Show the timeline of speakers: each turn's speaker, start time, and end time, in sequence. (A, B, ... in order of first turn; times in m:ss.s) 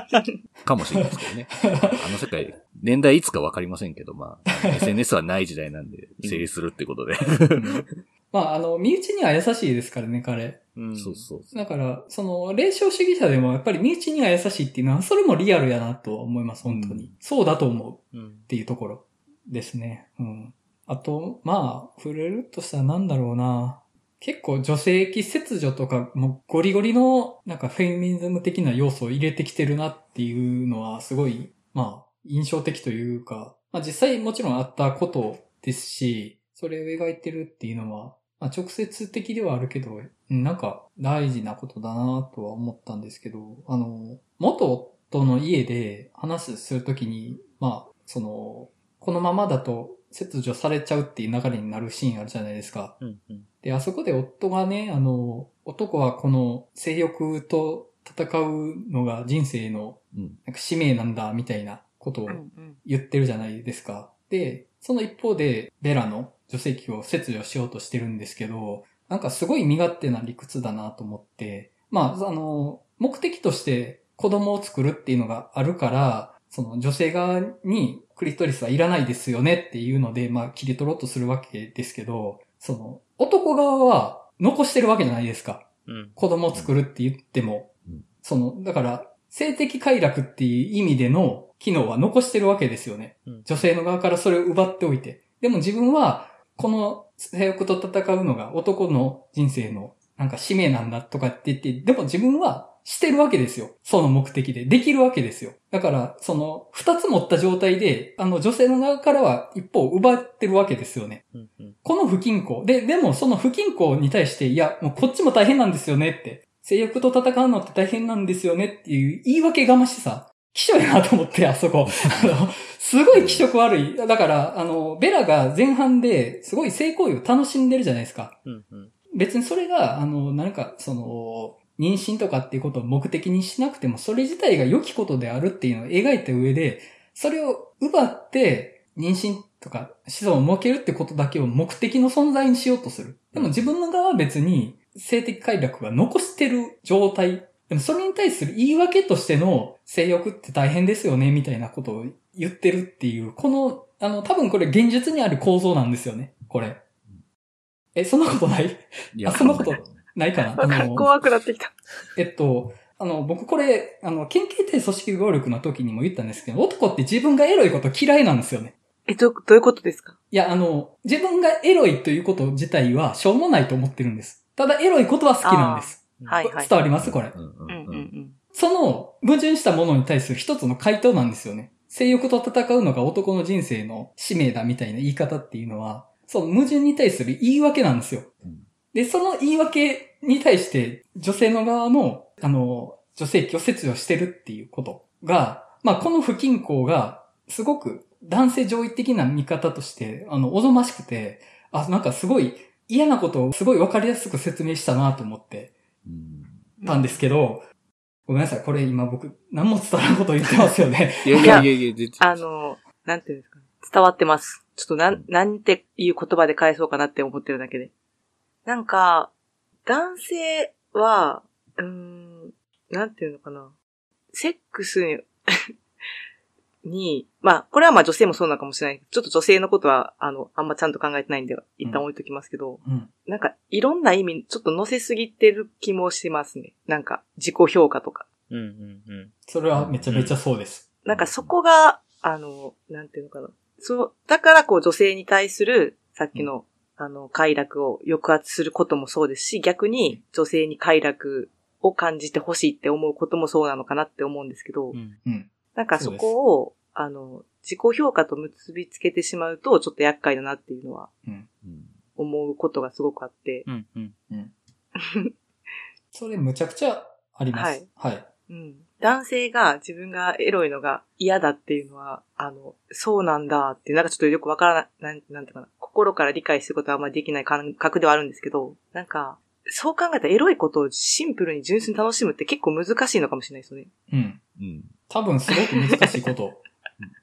0:00.6-0:07.8 A
0:01.6-0:02.0 B
0:06.2-0:06.5 C
0:07.6-0:10.6 B
0:10.8-0:11.3 C
0:11.0-0:11.6 A
0:11.5-0:53.0 B
0:16.6-0:17.1 A
0:18.1-0:18.5 C
0:53.0-0:53.5 C
0:53.6-1:51.2 B
1:00.1-1:00.4 A
1:02.3-1:02.8 D
1:25.9-1:26.2 C
1:51.3-1:51.8 C
1:51.8-2:08.4 B
2:01.9-2:02.4 A
2:03.1-2:03.5 A
2:08.5-2:08.9 C
2:09.1-2:36.8 B
2:23.3-2:23.7 A
2:38.0-2:41.1 B
2:39.2-2:40.0 A
2:40.6-2:41.7 D
2:42.2-2:48.8 B
2:49.1-2:50.2 D
2:50.3-2:57.4 B
2:55.4-2:56.7 D
2:57.0-2:58.1 A
2:57.7-2:58.4 D
2:58.5-3:08.3 B
3:08.9-3:25.8 B
3:26.0-3:26.6 A
3:26.8-3:27.2 D
3:26.8-3:27.7 B
3:28.3-3:31.7 B
3:31.2-3:32.4 A
3:32.2-3:37.9 D
3:38.7-3:39.3 D
3:39.9-3:43.7 D
3:44.3-3:45.7 D
3:46.8-3:58.3 D
3:52.8-3:53.1 B
3:58.5-3:59.3 C
3:59.5-4:00.9 B
3:59.7-4:00.2 A
4:00.1-4:00.4 C
4:01.0-4:15.0 D
4:01.1-4:01.5 A
4:15.2-4:16.4 B
4:15.8-4:21.1 D
4:21.6-4:22.0 A
4:22.2-4:23.7 D
4:23.7-4:24.2 C
4:25.0-4:25.3 D
4:26.1-4:28.3 B
4:27.5-4:27.9 D
4:28.5-4:43.9 D
4:44.1-4:44.4 B
4:44.6-4:45.0 A
4:45.1-4:46.6 B
4:45.6-4:46.2 D